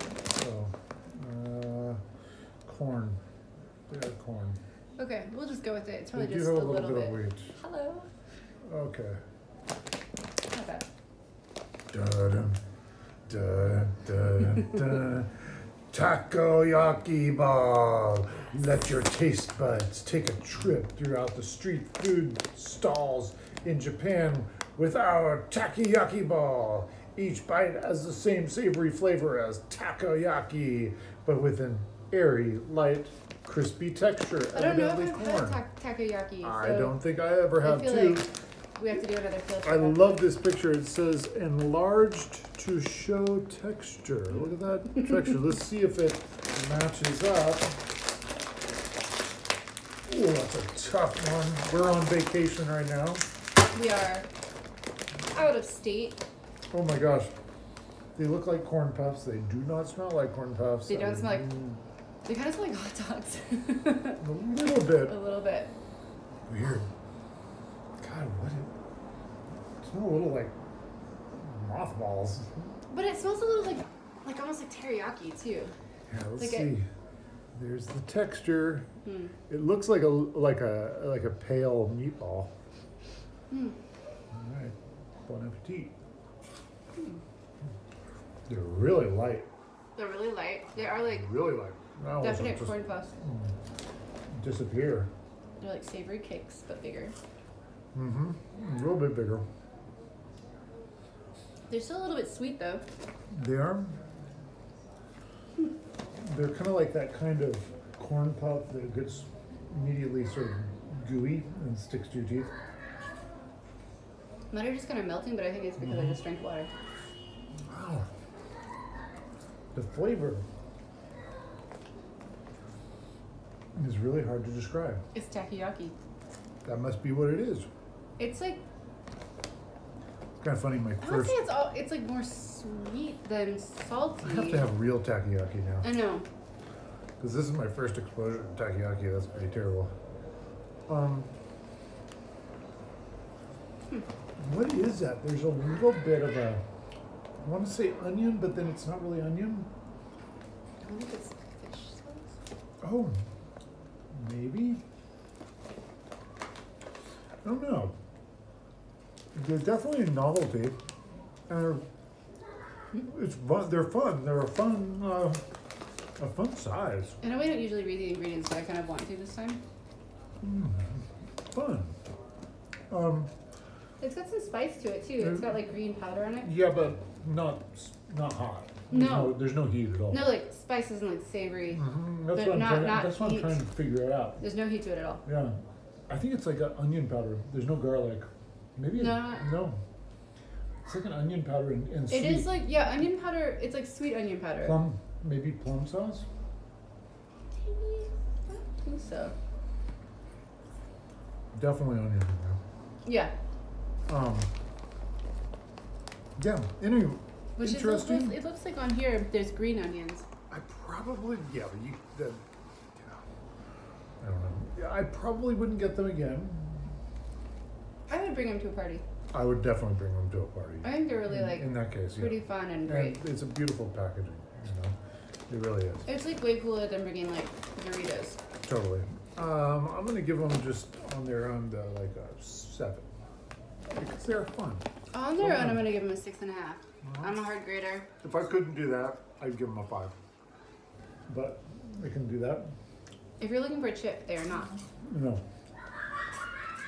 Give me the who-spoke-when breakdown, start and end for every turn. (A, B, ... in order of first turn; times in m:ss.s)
0:00.3-0:02.0 A
0:02.7-0:03.2 A
0:03.9-0:04.6 A
0:05.0-0:08.1 B
0:06.1-0:07.5 A
0:08.7-0:09.2 A
0:10.5-0:10.9 B
0:11.9-0:12.6 A
0:13.3-0:35.6 A
0:34.5-0:37.0 B
0:36.4-0:38.3 A
0:37.6-0:40.2 B
0:39.6-0:47.7 A
0:50.1-0:53.2 A
0:53.7-0:54.3 B
0:55.3-0:56.2 B
0:56.7-0:57.3 A
0:58.2-1:01.8 A
1:00.9-1:01.6 B
1:02.3-1:04.2 B
1:04.2-1:05.2 A
1:04.9-1:05.7 B
1:06.5-1:06.9 A
1:08.0-1:08.7 A
1:09.8-1:10.5 A
1:11.3-1:12.5 A
1:12.9-1:15.7 B
1:16.1-1:16.9 A
1:16.4-1:16.7 B
1:17.6-1:18.9 A
1:19.0-1:19.4 B
1:19.5-1:22.5 A
1:23.5-1:23.8 B
1:24.3-1:25.9 A
1:27.0-1:27.2 B
1:28.5-1:29.5 A
1:30.0-1:31.3 B
1:31.1-1:33.5 A
1:32.2-1:33.1 B
1:34.4-1:35.1 A
1:35.6-1:37.2 B
1:37.9-1:39.4 A
1:41.7-1:42.8 B
1:43.3-1:44.0 A
1:46.2-1:52.5 A
1:54.5-1:56.7 B
1:55.8-1:56.2 A
1:57.7-1:58.1 A
1:59.7-2:00.4 A
2:03.8-2:05.0 A
2:05.1-2:06.0 B
2:06.6-2:07.7 A
2:08.2-2:08.6 B
2:10.4-2:11.4 A
2:11.0-2:14.7 B
2:14.2-2:15.9 A
2:15.8-2:16.3 B
2:17.2-2:19.9 A
2:20.9-2:21.3 A
2:24.4-2:26.6 A
2:27.4-2:29.7 A
2:30.8-2:32.3 B
2:32.8-2:33.2 A
2:34.1-2:34.8 A
2:37.4-2:37.9 A
2:39.4-2:40.8 A
2:41.5-2:41.8 A
2:43.0-2:45.4 A
2:46.2-2:47.2 A
2:47.2-2:49.6 B
2:50.4-2:51.9 A
2:52.9-2:53.3 A
2:54.0-2:56.5 B
2:55.2-2:55.5 A
2:56.4-3:00.3 A
2:58.9-2:59.5 B
3:00.1-3:03.6 B
3:01.7-3:04.4 A
3:04.4-3:05.2 B
3:05.2-3:05.6 A
3:06.1-3:09.8 A
3:09.0-3:09.5 B
3:10.9-3:12.6 A
3:12.1-3:14.8 B
3:14.6-3:16.3 A
3:17.6-3:19.4 B
3:21.5-3:22.6 A
3:23.0-3:23.3 B
3:24.1-3:24.5 A
3:26.4-3:28.4 A
3:27.6-3:30.2 B
3:30.5-3:32.4 A
3:33.0-3:33.2 A
3:34.2-3:36.9 A
3:38.1-3:39.0 B
3:39.3-3:45.0 A
3:40.8-3:43.2 B
3:45.5-3:46.1 A
3:46.1-3:48.4 B
3:48.6-3:53.1 A
3:53.9-3:54.8 A
3:55.1-3:58.1 B
3:55.4-3:55.9 A
3:57.0-3:57.4 A
3:58.2-4:00.2 A
4:01.3-4:02.7 A
4:03.4-4:04.8 B
4:05.1-4:05.4 A